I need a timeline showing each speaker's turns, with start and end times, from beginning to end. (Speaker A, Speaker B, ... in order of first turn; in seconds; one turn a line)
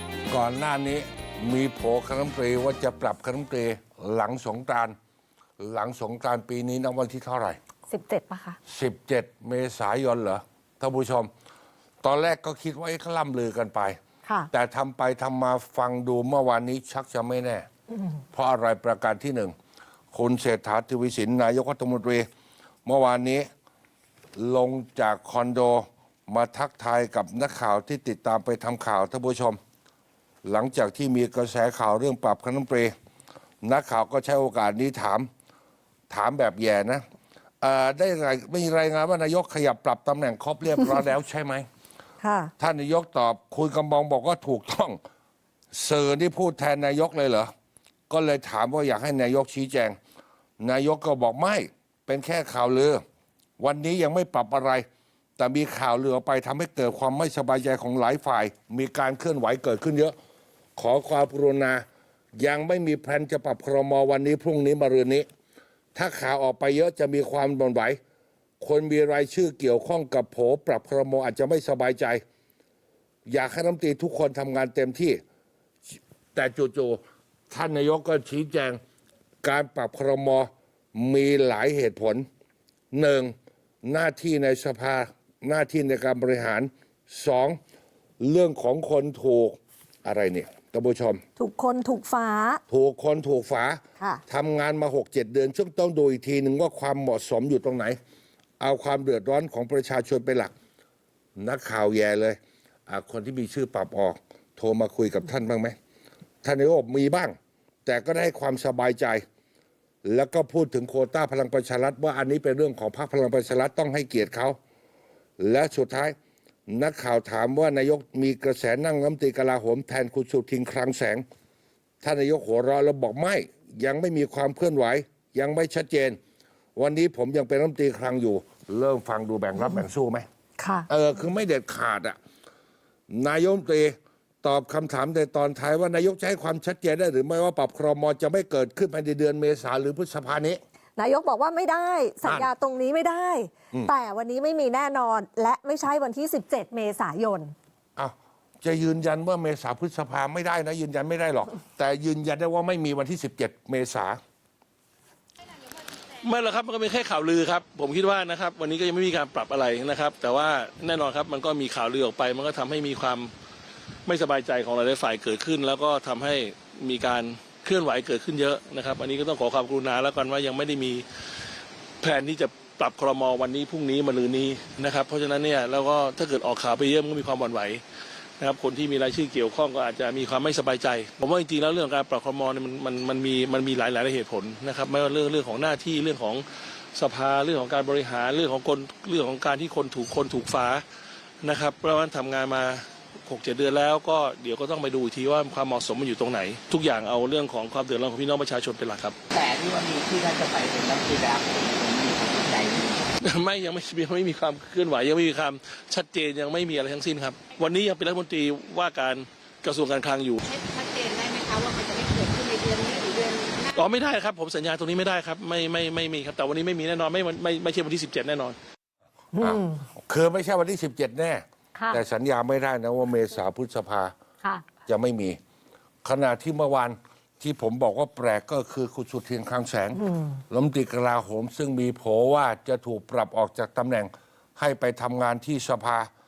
Speaker A: 0.3-5.0
Speaker A: 5.6-7.6
Speaker B: 7.9-8.6
Speaker A: 8.7-11.3
Speaker A: 12.0-14.0
Speaker A: 14.5-17.7
Speaker A: 18.3-19.6
Speaker A: 20.1-22.3
Speaker A: 22.9-23.5
Speaker A: 24.4-29.6
Speaker A: 30.4-32.9
Speaker A: 33.6-35.3
Speaker A: 36.1-37.0
Speaker A: 37.6-41.7
Speaker B: 42.2-42.5
Speaker A: 42.6-45.0
Speaker A: 45.7-47.5
Speaker A: 48.1-50.0
Speaker A: 50.6-53.0
Speaker A: 53.6-54.9
Speaker A: 55.4-60.1
Speaker A: 60.8-61.9
Speaker A: 62.4-65.3
Speaker A: 66.0-68.0
Speaker A: 68.6-72.2
Speaker A: 73.3-75.2
Speaker A: 76.3-78.8
Speaker A: 79.4-82.3
Speaker A: 82.9-87.6
Speaker A: 88.2-91.2
Speaker B: 91.4-92.6
Speaker A: 92.7-98.0
Speaker A: 98.6-100.5
Speaker A: 101.4-105.8
Speaker A: 106.4-109.2
Speaker A: 110.0-114.6
Speaker A: 115.4-116.2
Speaker A: 116.7-121.2
Speaker A: 122.0-126.2
Speaker A: 126.8-130.3
Speaker B: 130.6-130.9
Speaker A: 130.9-132.2
Speaker A: 133.1-140.6
Speaker B: 141.0-147.5
Speaker A: 148.0-154.2
Speaker C: 156.2-163.3
Speaker C: 164.1-171.1
Speaker C: 172.0-177.8
Speaker C: 178.4-190.8
Speaker C: 191.4-199.2
Speaker D: 199.3-203.0
Speaker C: 203.2-210.4
Speaker E: 210.5-213.8
Speaker C: 213.7-218.6
Speaker B: 219.3-219.8
Speaker A: 219.4-224.1
Speaker A: 224.8-225.4
Speaker A: 226.0-236.1